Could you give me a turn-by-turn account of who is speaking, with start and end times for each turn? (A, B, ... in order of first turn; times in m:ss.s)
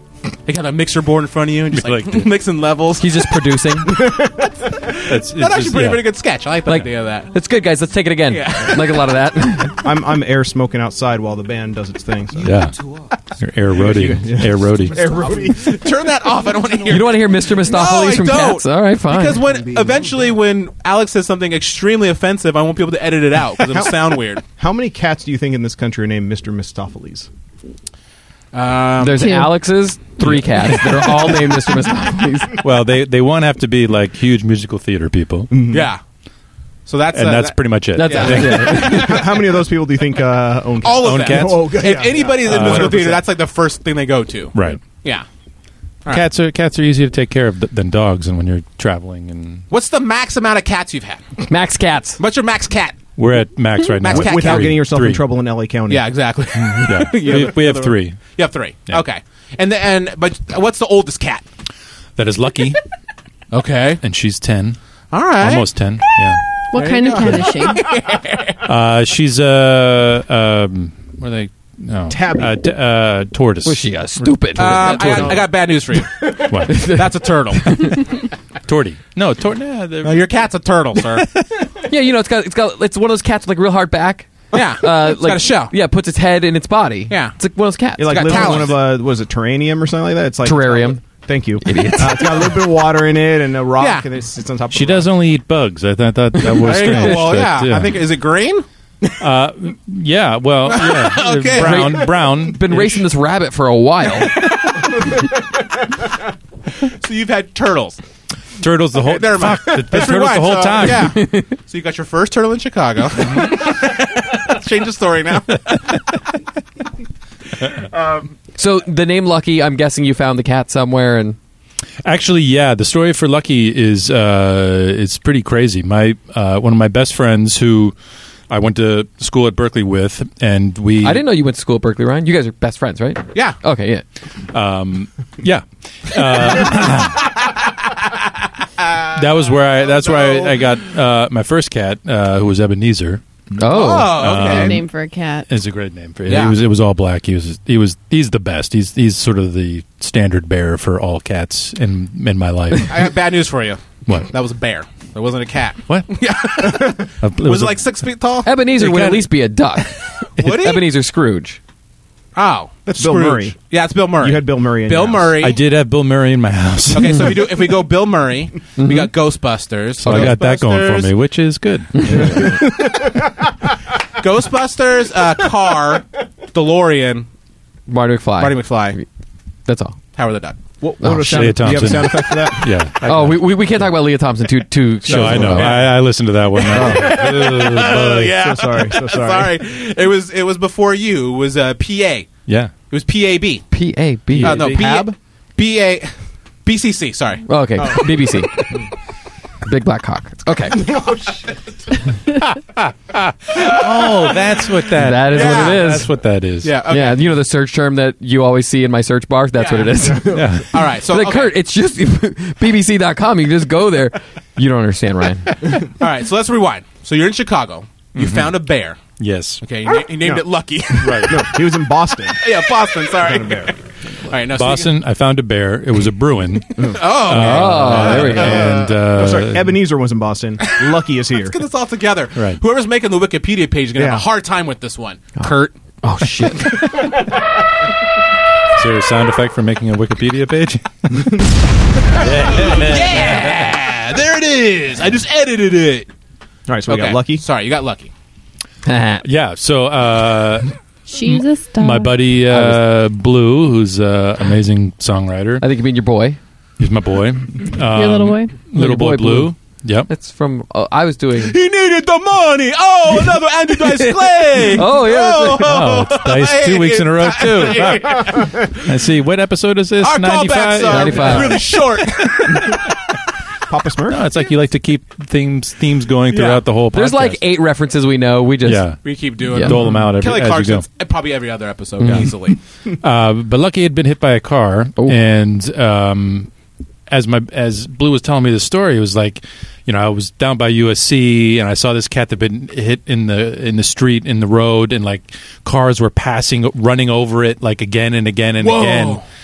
0:00.4-0:03.2 A
0:01.7-0:02.3 B
0:03.0-0:04.1 C
0:04.7-0:07.3 A
0:05.1-0:06.0 B
0:06.6-0:09.8 C
0:08.3-0:09.1 A
0:09.8-0:12.5 D
0:12.4-0:12.8 B
0:13.4-0:15.1 B
0:13.8-0:15.9 D
0:15.6-0:24.4 A
0:16.9-0:19.4 C
0:23.7-0:23.9 D
0:24.5-0:27.3 D
0:28.5-0:29.4 A
0:29.0-0:32.6 C
0:29.2-0:29.6 E
0:30.2-0:31.3 B
0:32.6-0:35.8 B
0:35.5-0:35.9 D
0:35.7-0:36.0 A
0:36.9-0:39.3 A
0:37.1-0:39.0 B
0:37.9-0:39.3 C
0:38.5-0:43.2 D
0:40.8-0:45.2 A
0:41.0-0:43.2 B
0:44.5-0:44.8 B
0:46.1-0:49.6 B
0:49.7-0:51.3 A
0:51.4-0:52.2 C
0:52.2-0:53.0 A
0:53.2-0:55.2 B
0:54.0-0:54.8 A
0:54.1-0:56.1 D
0:55.9-1:01.4 A
0:56.8-0:58.3 B
1:02.2-1:02.8 B
1:03.5-1:04.0 A
1:04.0-1:04.8 B
1:05.1-1:05.7 A
1:05.4-1:06.4 B
1:06.7-1:07.8 E
1:06.7-1:08.6 A
1:08.6-1:15.5 B
1:12.1-1:12.6 D
1:13.6-1:15.4 C
1:14.6-1:18.1 A
1:16.3-1:16.9 B
1:16.7-1:17.9 C
1:18.6-1:20.2 B
1:20.0-1:21.3 A
1:21.0-1:21.4 B
1:21.8-1:28.7 C
1:24.5-1:25.7 A
1:27.1-1:27.3 A
1:28.0-1:35.1 D
1:28.1-1:28.8 A
1:30.4-1:31.0 C
1:31.6-1:32.6 C
1:33.8-1:34.0 A
1:34.7-1:38.1 B
1:36.5-1:38.6 A
1:39.2-1:43.0 B
1:40.7-1:42.1 A
1:41.5-1:44.4 C
1:46.8-1:48.0 A
1:48.6-1:51.1 B
1:49.0-1:56.0 A
1:51.1-1:51.5 C
1:58.6-2:01.4 C
2:02.0-2:08.0 B
2:08.5-2:11.2 B
2:11.0-2:14.0 C
2:14.5-2:17.5 B
2:19.1-2:24.9 B
2:19.9-2:20.5 A
2:23.6-2:24.4 C
2:23.7-2:24.8 A
2:24.4-2:25.5 E
2:25.5-2:33.1 B
2:26.3-2:26.6 A
2:32.8-2:38.5 A
2:35.9-2:37.8 B
2:38.4-2:41.6 C
2:38.7-2:40.7 B
2:40.4-2:40.8 A
2:42.3-2:45.6 A
2:42.9-2:43.6 D
2:44.1-2:45.4 D
2:45.4-2:47.8 B
2:46.9-2:51.1 A
2:48.8-2:49.1 C
2:50.0-2:52.7 B
2:50.0-2:50.3 C
2:52.1-2:52.5 A
2:52.2-2:53.3 D
2:54.2-2:57.3 A
2:57.9-2:59.0 C
2:58.4-2:59.0 A
2:59.6-3:00.0 C
3:00.2-3:00.6 A
3:00.8-3:02.9 D
3:01.0-3:02.0 C
3:01.0-3:03.5 B
3:03.0-3:05.8 C
3:05.0-3:08.3 B
3:05.1-3:05.8 D
3:05.3-3:05.9 A
3:06.5-3:12.3 A
3:06.7-3:09.6 D
3:12.5-3:12.7 B
3:12.9-3:13.6 A
3:13.7-3:14.6 C
3:14.4-3:14.8 B
3:14.4-3:15.1 D
3:14.4-3:16.1 A
3:16.6-3:18.0 A
3:17.5-3:18.5 C
3:17.8-3:18.2 D
3:19.6-3:21.0 C
3:22.3-3:26.7 B
3:25.0-3:26.1 C
3:25.2-3:25.9 A
3:26.6-3:27.2 A
3:26.9-3:35.5 C
3:29.5-3:29.9 A
3:30.1-3:30.5 D
3:30.3-3:30.8 B
3:30.7-3:31.5 A
3:36.0-3:39.0 A
3:38.2-3:38.6 B
3:39.2-3:39.6 B
3:39.6-3:41.5 A
3:40.1-3:43.7 D
3:41.0-3:41.4 B
3:42.4-3:44.9 A
3:44.5-3:49.8 B
3:46.8-3:47.0 D
3:46.8-3:48.9 A
3:47.2-3:48.8 C
3:48.8-3:51.6 D
3:51.4-3:55.7 A
3:52.3-3:52.6 B
3:53.9-3:54.2 D
3:55.4-3:57.2 C
3:58.7-4:01.5 B
4:02.1-4:03.8 B
4:02.2-4:06.1 A
4:06.7-4:07.4 D
4:06.9-4:08.1 A
4:08.8-4:09.2 C
4:09.2-4:15.6 B
4:11.1-4:12.2 E
4:12.5-4:12.8 C
4:15.6-4:16.4 C
4:16.8-4:20.1 B
4:17.9-4:18.6 E
4:18.7-4:19.5 C
4:20.1-4:21.6 C
4:21.4-4:28.8 A
4:24.7-4:25.7 C
4:25.5-4:32.8 B
4:30.0-4:32.8 A
4:30.9-4:31.6 C
4:33.7-4:34.2 D
4:34.1-4:37.4 B
4:36.3-4:36.6 A
4:36.9-4:38.8 C
4:38.6-4:40.8 B
4:39.0-4:42.6 A
4:42.0-4:42.3 B
4:43.0-4:46.5 B
4:47.1-4:59.2 B
4:58.6-4:59.2 A